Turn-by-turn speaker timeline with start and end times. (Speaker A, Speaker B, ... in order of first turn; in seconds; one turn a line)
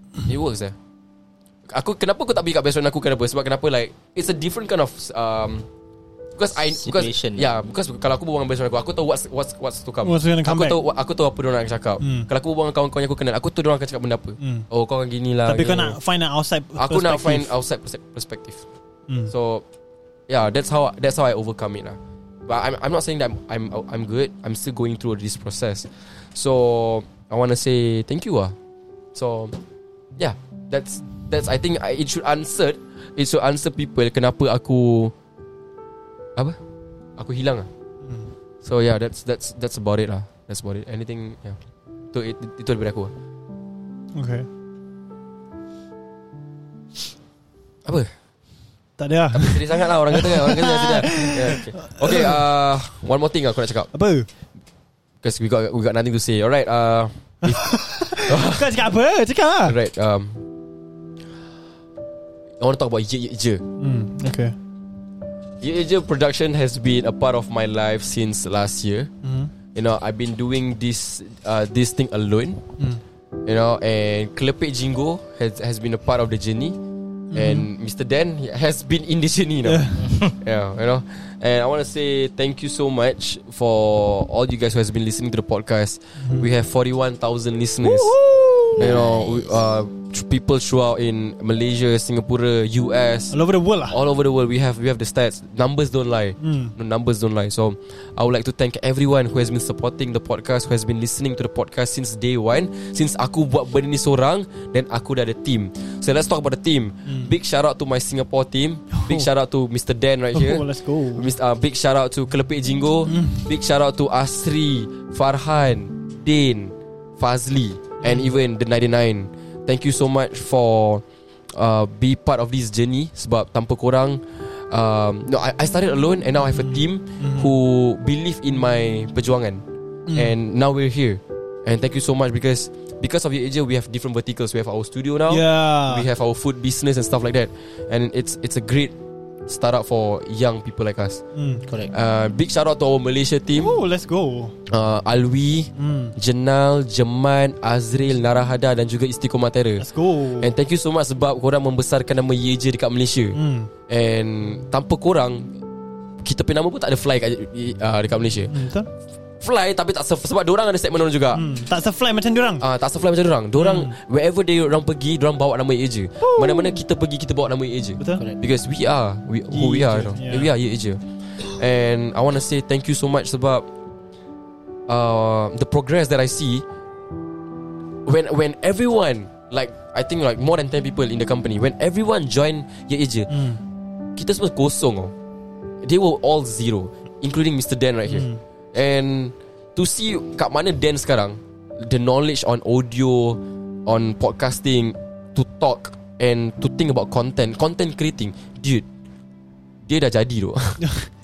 Speaker A: 0.2-0.8
Speaker A: 1.7-5.7
Speaker A: 6.3-16.0
Speaker B: 6.7-7.5
Speaker C: 10.0-10.8
Speaker C: 12.0-12.3
Speaker C: 14.4-14.7
Speaker C: 15.4-17.5
Speaker A: 16.8-18.6
Speaker A: 19.3-19.6
Speaker A: 20.3-28.5
Speaker A: 29.1-29.6
Speaker A: 30.2-35.1
Speaker A: 37.2-37.7
Speaker C: 38.0-38.3
Speaker A: 38.6-41.6
Speaker A: 42.1-43.1
Speaker C: 44.1-44.5
Speaker A: 47.8-48.1
Speaker C: 49.0-52.4
Speaker A: 49.3-53.9
Speaker C: 53.9-54.3
Speaker A: 55.2-58.8
Speaker C: 57.4-59.8
Speaker A: 59.6-60.4
Speaker A: 62.6-63.6
Speaker C: 63.8-64.5
Speaker A: 65.6-69.1
Speaker C: 69.2-69.5
Speaker A: 69.7-72.7
Speaker A: 73.5-76.8
Speaker C: 77.3-77.7
Speaker A: 77.3-88.2
Speaker C: 79.6-80.1
Speaker B: 80.0-80.3
Speaker C: 86.2-86.5
Speaker C: 87.8-88.9
Speaker B: 88.7-89.5
Speaker A: 88.8-93.3
Speaker C: 93.3-94.0
Speaker A: 93.9-129.6
Speaker C: 96.4-96.7
Speaker C: 107.1-107.3
Speaker C: 108.9-109.3
Speaker C: 110.3-111.3
Speaker C: 113.1-113.5
Speaker C: 118.0-118.3
Speaker C: 126.5-127.5
Speaker C: 130.1-130.3
Speaker A: 130.1-138.9
Speaker C: 135.3-136.1
Speaker A: 139.5-141.2
Speaker C: 141.3-141.6
Speaker B: 141.7-141.9
Speaker A: 141.9-143.8
Speaker C: 143.5-144.5
Speaker A: 144.7-149.8
Speaker C: 145.8-146.1
Speaker C: 149.8-150.5
Speaker A: 150.4-153.4
Speaker C: 153.3-153.7
Speaker A: 153.9-155.5
Speaker A: 156.2-158.5
Speaker C: 158.5-158.9
Speaker A: 159.4-161.4
Speaker C: 161.3-162.6
Speaker A: 162.6-173.7
Speaker C: 163.6-163.9
Speaker C: 166.2-166.8
Speaker C: 168.0-168.2
Speaker C: 169.5-170.5
Speaker A: 174.9-176.7
Speaker A: 178.1-183.3
Speaker C: 183.3-183.6
Speaker A: 184.2-185.1
Speaker A: 185.8-198.8
Speaker C: 188.1-188.4
Speaker A: 199.8-200.9